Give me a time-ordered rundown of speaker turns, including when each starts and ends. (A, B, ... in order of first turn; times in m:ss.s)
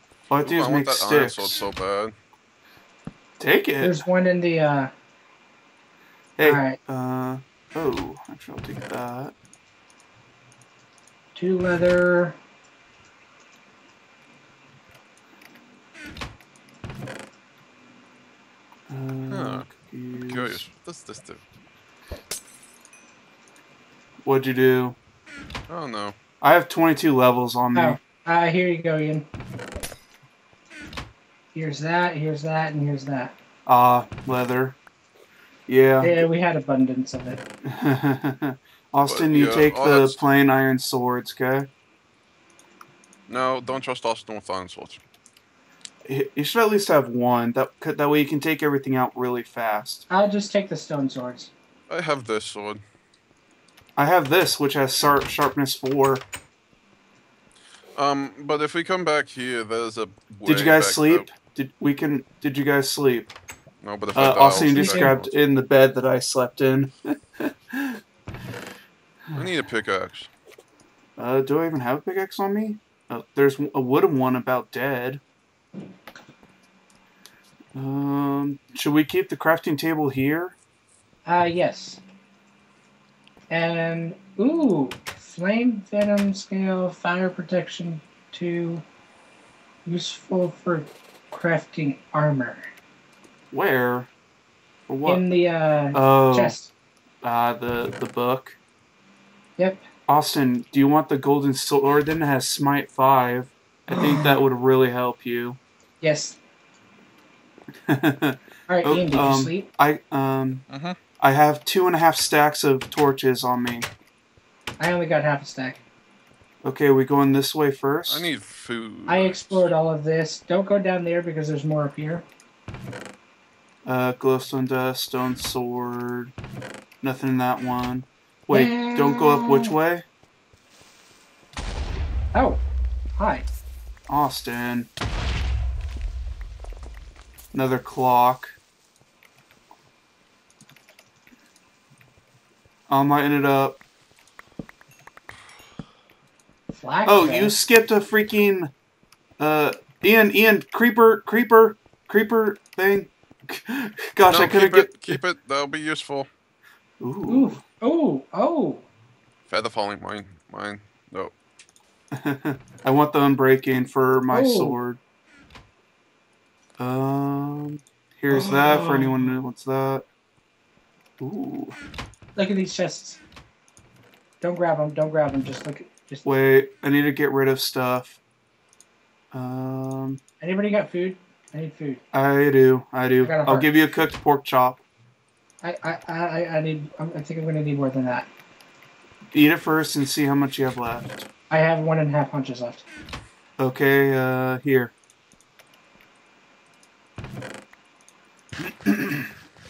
0:00.3-0:01.6 A
0:00.4-0:02.1 B
0:03.4-0:04.0 A
0:03.8-0:04.9 C
0:06.4-0:09.3 A
0:06.4-0:06.8 C
0:11.3-0:12.4 C
0:18.9-0:20.6 A
0:19.3-0:21.4 B
0:24.2-0:25.0 A
0:25.7-0:26.2 B
0:26.4-0:28.0 A
0:27.7-0:29.3 C
0:31.5-0:33.3 C
0:33.6-0:34.8 A
0:35.7-0:36.2 A
0:36.0-0:37.4 C
0:37.6-0:41.7 A
0:39.1-0:40.2 B
0:43.3-0:45.0 B
0:46.1-0:50.0 A
0:50.1-0:51.5 C
0:51.9-0:52.8 B
0:54.0-0:56.2 A
0:58.0-1:01.3 B
1:00.4-1:03.3 A
1:03.8-1:05.3 B
1:04.1-1:08.0 A
1:04.7-1:05.2 C
1:09.3-1:10.3 B
1:11.2-1:15.2 A
1:17.7-1:20.5 A
1:21.2-1:22.0 C
1:23.5-1:28.8 C
1:29.8-1:32.7 C
1:33.5-1:34.1 A
1:34.9-1:35.2 A
1:35.0-1:36.7 C
1:35.9-1:36.6 A
1:37.2-1:38.6 A
1:39.6-1:39.8 C
1:40.1-1:45.6 A
1:43.9-1:44.4 C
1:46.0-1:46.4 C
1:47.9-1:50.6 A
1:48.7-1:49.7 C
1:50.7-1:51.0 B
1:51.2-1:53.9 A
1:54.8-1:55.8 C
1:56.6-1:58.3 A
1:58.1-1:59.7 B
1:59.1-2:02.2 C
2:03.8-2:06.3 A
2:07.0-2:10.0 A
2:08.5-2:09.7 C
2:12.3-2:12.6 C
2:13.2-2:13.4 C
2:14.1-2:14.9 A
2:17.5-2:18.5 A
2:22.9-2:23.8 A
2:26.7-2:27.6 C
2:27.0-2:28.7 A
2:29.4-2:35.2 A
2:34.3-2:36.3 B
2:37.0-2:37.6 A
2:37.3-2:38.8 C
2:39.5-2:41.3 B
2:42.1-2:45.0 A
2:44.3-2:44.8 C
2:46.8-2:50.0 A
2:48.3-2:49.3 C
2:51.2-2:51.8 A
2:52.4-2:53.2 C
2:54.4-2:56.2 C
2:56.2-2:58.2 A
2:59.3-3:00.2 A
3:00.4-3:02.0 C
3:02.1-3:04.8 A
3:03.2-3:03.7 C
3:05.6-3:08.3 C
3:09.3-3:11.3 A
3:11.5-3:12.8 C
3:13.6-3:14.9 A